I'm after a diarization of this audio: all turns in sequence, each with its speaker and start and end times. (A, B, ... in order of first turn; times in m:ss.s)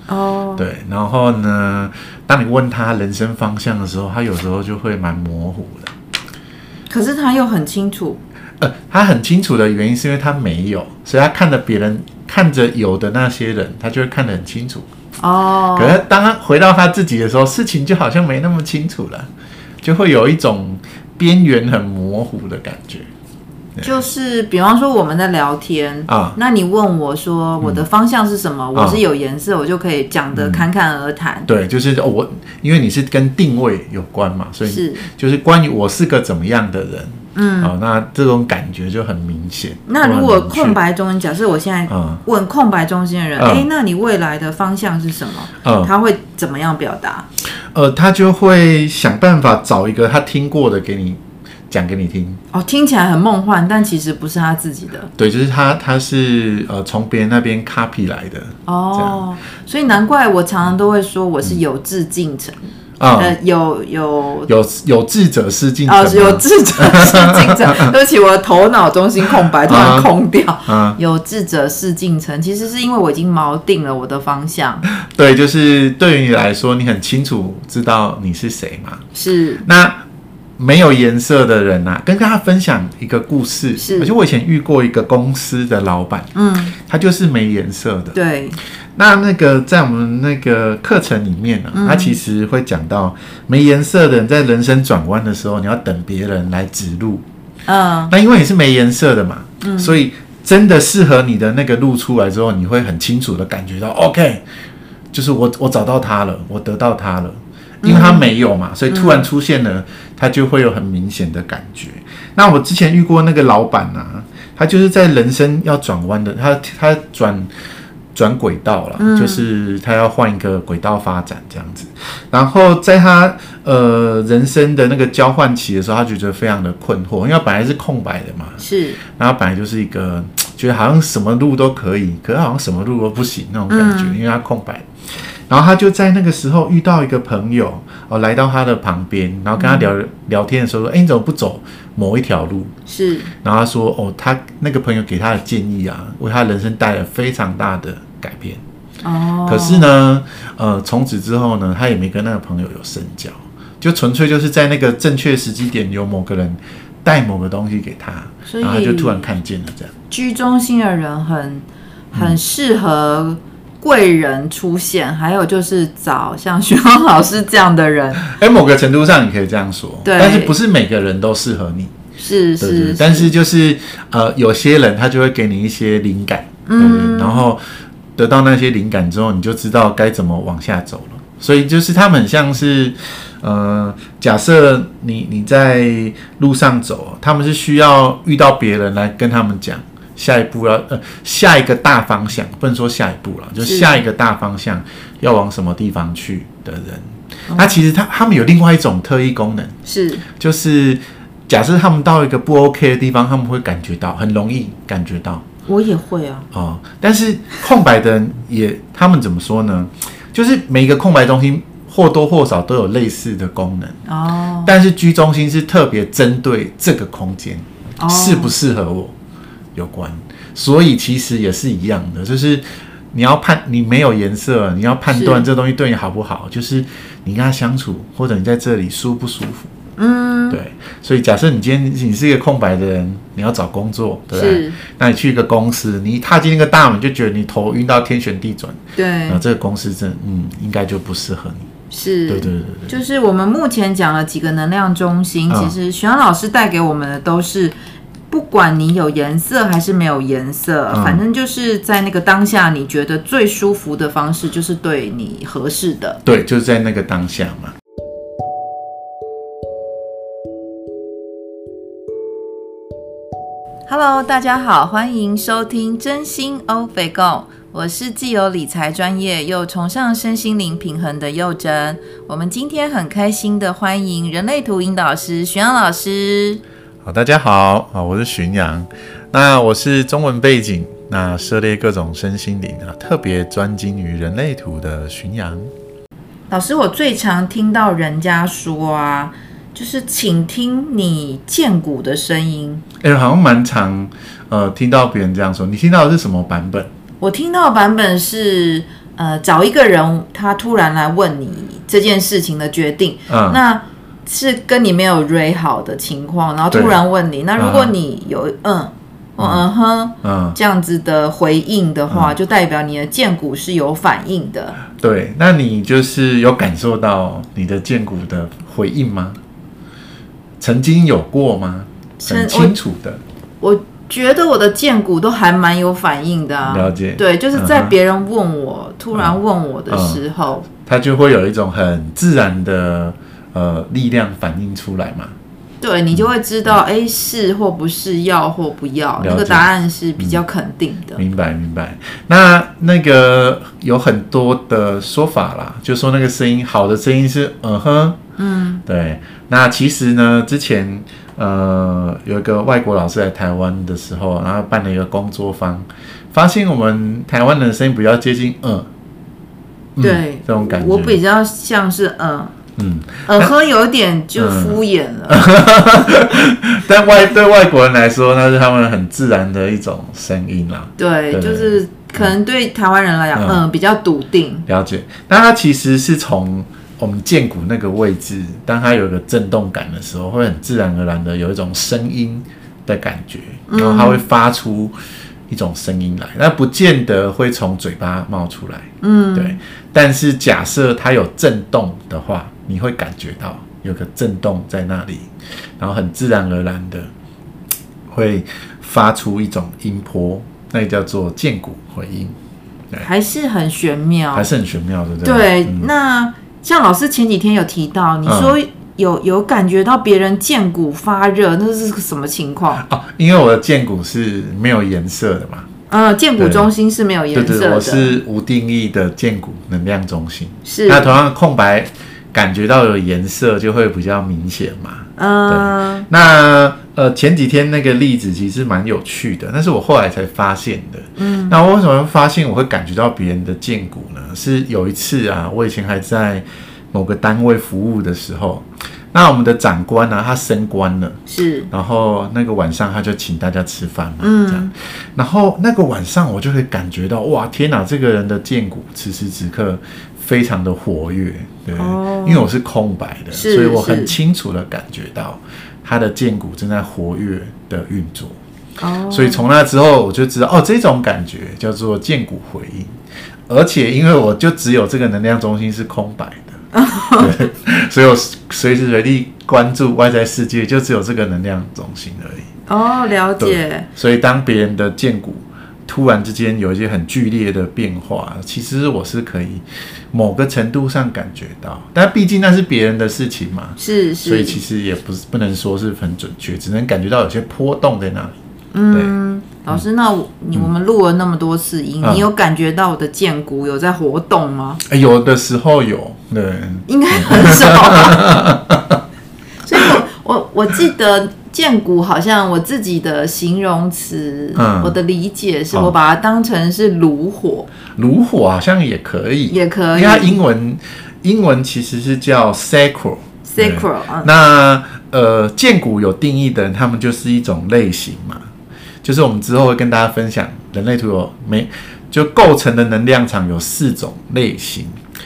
0:00.1-0:00.7 A
0:00.6-0:05.9 B
0:06.9-0:08.2 A
0:08.6-0:14.9 B
0:15.2-0:16.0 A
0:15.8-0:19.3 B
0:19.8-0:23.1 B
0:23.8-0:31.5 A
0:26.1-0:26.4 B
0:28.8-0:29.0 B
0:30.3-0:30.7 B
0:31.5-0:40.8 B
0:34.6-0:35.1 A
0:37.4-0:37.7 A
0:39.9-0:47.3 A
0:41.9-0:42.2 B
0:43.4-0:43.7 B
0:45.6-0:45.9 B
0:47.6-0:52.4 B
0:52.5-0:55.1 A
0:55.2-0:59.2 B
0:58.7-1:02.6 A
1:03.0-1:03.4 B
1:03.2-1:04.5 A
1:04.5-1:07.9 B
1:05.9-1:14.9 A
1:09.5-1:10.1 B
1:10.7-1:11.0 B
1:14.9-1:19.1 B
1:19.2-1:19.6 A
1:19.6-1:20.0 B
1:20.6-1:28.2 B
1:23.8-1:24.1 A
1:26.4-1:26.8 A
1:28.2-1:28.6 A
1:29.0-1:37.2 B
1:31.7-1:32.2 A
1:37.7-1:38.1 A
1:38.1-1:44.4 B
1:39.6-1:40.0 A
1:45.1-1:57.5 B
1:47.8-1:48.3 A
1:48.9-1:49.2 A
1:58.1-2:22.7 B
1:59.0-1:59.4 A
2:08.6-2:09.0 A
2:13.7-2:14.2 A
2:19.6-2:19.9 A
2:22.9-2:23.3 A
2:23.4-2:28.6 B
2:29.0-2:29.9 A
2:29.5-2:39.9 B
2:38.5-2:39.3 A
2:40.1-2:48.3 A
2:48.2-2:51.9 B
2:50.0-2:50.6 A
2:52.2-2:53.3 A
2:52.6-2:57.6 B
2:56.7-2:57.4 A
2:58.2-3:19.8 B
3:13.6-3:14.0 A
3:17.5-3:17.8 A
3:19.9-3:20.2 A
3:20.3-3:25.4 B
3:25.7-3:26.5 A
3:26.5-3:34.0 B
3:34.1-3:34.7 A
3:34.6-3:39.2 B
3:38.0-3:38.5 A
3:39.8-3:49.7 B
3:45.1-3:45.5 A
3:50.0-3:50.6 A
3:50.5-4:01.7 B
3:54.3-3:54.8 A
3:59.0-3:59.4 A
4:01.9-4:07.8 A
4:02.3-4:02.9 B
4:05.5-4:05.8 B
4:08.3-4:16.2 A
4:10.9-4:11.2 B
4:16.2-4:17.8 B
4:23.9-4:36.6 A
4:37.0-4:45.7 B
4:46.5-4:52.8 A
4:53.0-4:56.9 B
4:57.2-5:14.8 A
5:03.3-5:03.6 B
5:06.7-5:07.0 B
5:07.6-5:07.9 B
5:09.4-5:09.6 B
5:10.2-5:10.6 B
5:12.1-5:12.4 B
5:14.9-5:19.4 B
5:20.6-5:23.2 B
5:22.2-5:22.8 A
5:23.6-5:30.7 A
5:26.7-5:28.0 B
5:29.9-5:30.2 B
5:30.8-5:35.4 B
5:35.8-5:41.2 A
5:36.1-5:36.8 B
5:39.2-5:40.4 B
5:41.2-5:48.2 B
5:48.4-5:48.8 A
5:48.9-5:58.9 B
6:00.0-6:01.2 B
6:00.0-6:02.5 A
6:02.8-6:03.5 B
6:03.3-6:05.4 A
6:04.4-6:12.3 B
6:11.0-6:14.7 A
6:13.4-6:13.6 B
6:14.7-6:25.0 B
6:23.7-6:24.2 A
6:25.5-6:37.1 B
6:29.0-6:29.6 A
6:38.1-6:42.4 B
6:43.0-6:44.5 A
6:44.3-6:45.9 B
6:45.2-6:52.8 A
6:48.2-6:48.6 B
6:52.8-6:55.7 B
6:55.9-6:58.2 A
6:56.4-6:56.7 B
6:57.3-7:38.4 B
7:00.6-7:01.2 A
7:05.2-7:06.1 A
7:11.2-7:11.6 A
7:21.3-7:21.7 A
7:24.2-7:24.7 A
7:31.8-7:32.5 A
7:33.3-7:34.2 A
7:38.8-7:39.4 A
7:39.1-7:42.9 B
7:43.5-7:46.6 B
7:46.7-7:47.5 A
7:47.1-7:52.5 B
7:52.7-7:53.9 A
7:53.4-8:08.4 B
8:03.8-8:04.6 A
8:08.7-8:14.8 A
8:12.0-8:12.3 B
8:14.8-8:19.0 B
8:16.9-8:18.3 A
8:19.6-8:27.7 A
8:19.8-8:20.0 B
8:24.6-8:25.0 B
8:28.0-8:38.5 B
8:29.5-8:30.4 A
8:33.4-8:34.3 A
8:39.0-8:45.0 B